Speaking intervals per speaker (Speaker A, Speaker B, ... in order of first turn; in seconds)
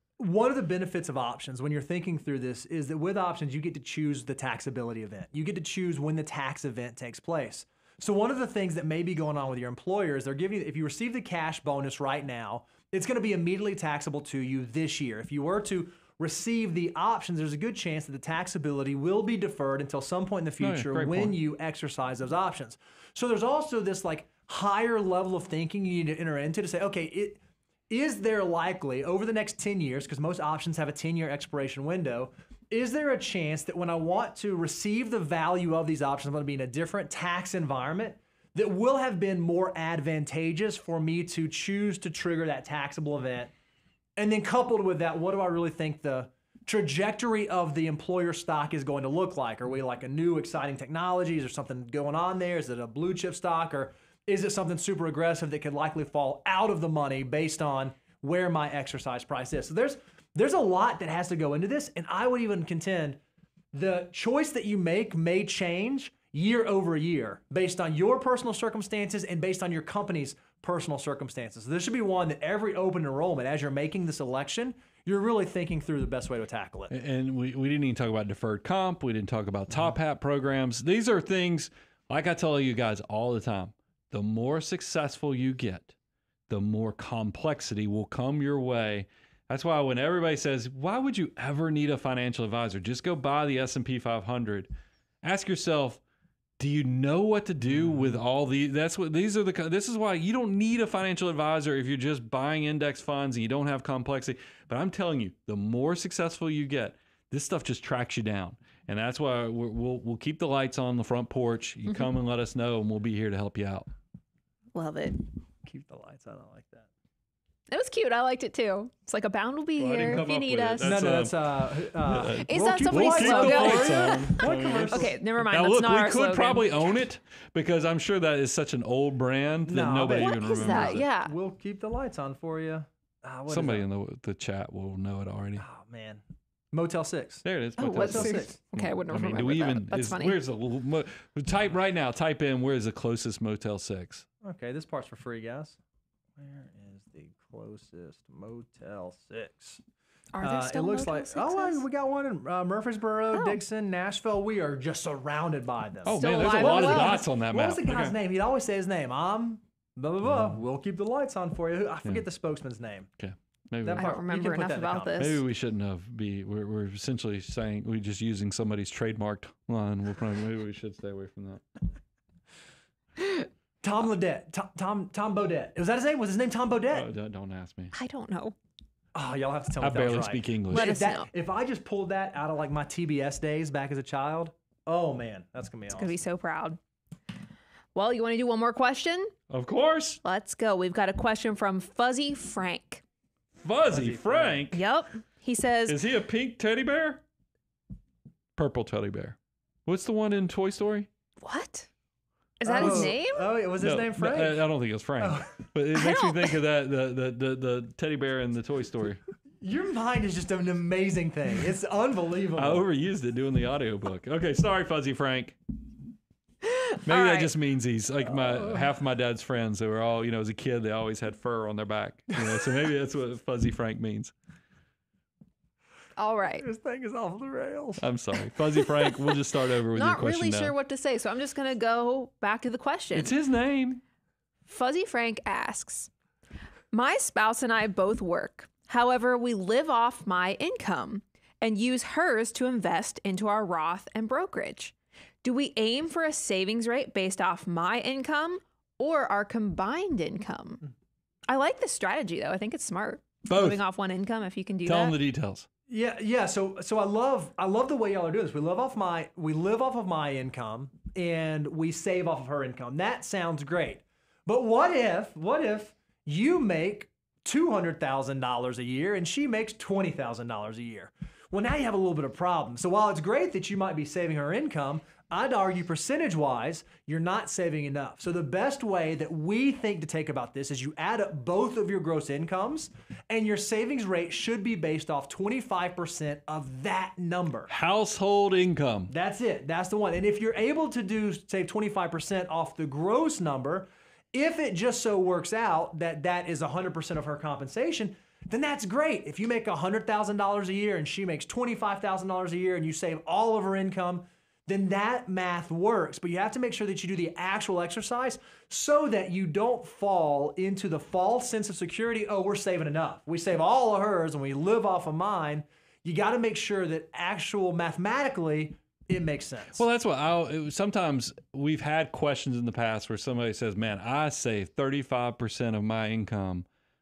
Speaker A: 0.2-43.5, 44.2-63.2, 63.7-76.9, 97.6-98.2, 115.6-116.9, 120.8-125.1, 129.7-133.9, 135.6-138.5, 144.4-145.8, 146.4-149.8, 150.4-163.1, 163.8-165.2, 173.8-177.1, 179.1-186.2, 193.9-194.6, 202.6-204.6, 205.2-205.5, 209.6-212.8, 222.3-222.7, 226.6-228.0, 255.9-287.7, 289.1-319.8
Speaker B: 20.6-21.4, 76.9-85.9, 86.5-94.7, 95.2-96.0, 96.6-113.9, 119.8-131.1, 133.5-135.6, 137.4-144.2, 156.0-158.1, 163.2-164.1, 165.2-171.6, 176.9-177.9, 179.8-181.0, 189.5-190.2, 193.6-194.8, 195.9-197.2, 198.6-201.1, 202.8-203.1, 203.8-209.2, 212.6-215.6, 217.1-224.3, 228.0-230.7, 233.1-234.0, 253.5-253.8, 254.8-255.7, 287.7-289.1, 319.8-326.6
Speaker C: 114.7-115.2, 117.7-121.0, 122.4-127.0, 130.1-131.3, 137.8-140.4, 150.3-151.8, 153.3-153.6, 156.1-157.2, 163.9-165.4, 177.9-178.6, 180.7-181.3, 185.9-186.8, 187.9-189.3, 190.2-193.0, 194.7-196.0, 201.4-201.9, 202.6-203.5, 205.9-206.6, 216.6-217.5, 226.2-226.7, 228.7-229.2, 229.9-233.3, 234.7-236.1, 236.9-250.8, 251.5-255.2